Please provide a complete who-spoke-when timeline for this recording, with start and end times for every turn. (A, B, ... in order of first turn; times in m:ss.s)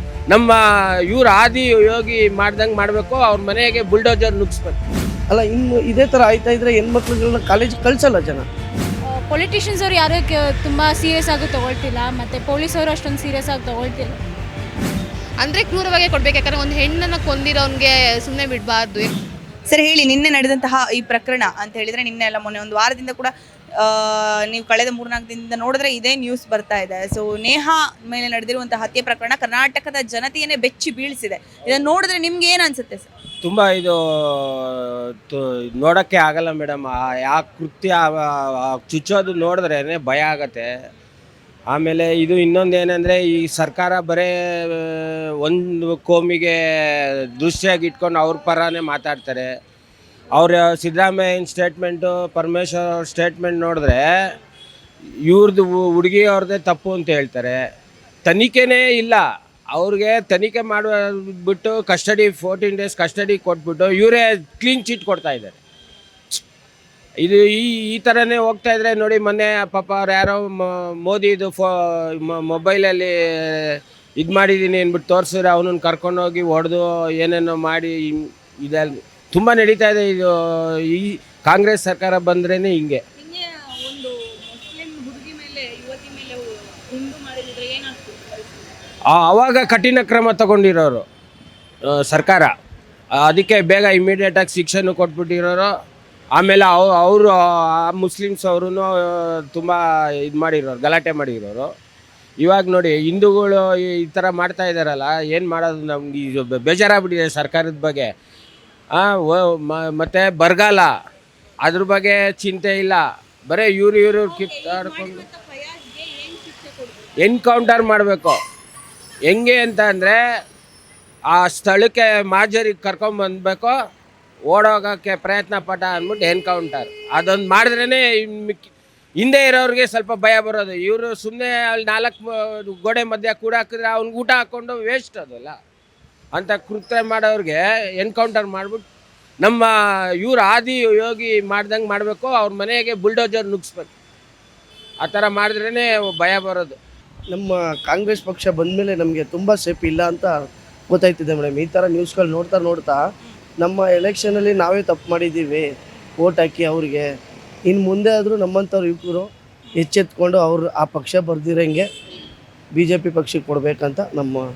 0:00.3-0:04.8 A
0:05.3-0:08.4 B
0:09.2-0:14.2 C
0:15.4-0:19.1 D
0:19.7-0:33.1 E
0:33.4-0:40.7 A
0:41.7-0:49.5 A
0:50.3-0:54.0 A
0:55.2-0:57.6 A
0:58.2-1:05.6 A
1:07.2-1:23.0 A
1:29.1-1:31.0 A
1:31.9-1:32.5 A
1:33.2-1:35.7 A
1:36.4-1:41.7 A
1:42.4-1:48.1 A
1:48.9-1:50.9 A
1:51.6-1:55.2 A
1:54.7-1:55.0 E
1:57.2-1:58.4 A
1:59.3-2:00.2 A
2:01.3-2:03.7 A
2:04.5-2:08.6 A
2:09.2-2:15.6 A
2:16.3-2:18.8 A
2:19.4-2:23.9 A
2:25.0-2:26.8 A
2:27.3-2:33.0 B
2:33.6-2:37.0 B
2:37.7-2:41.8 B
2:42.7-2:44.4 B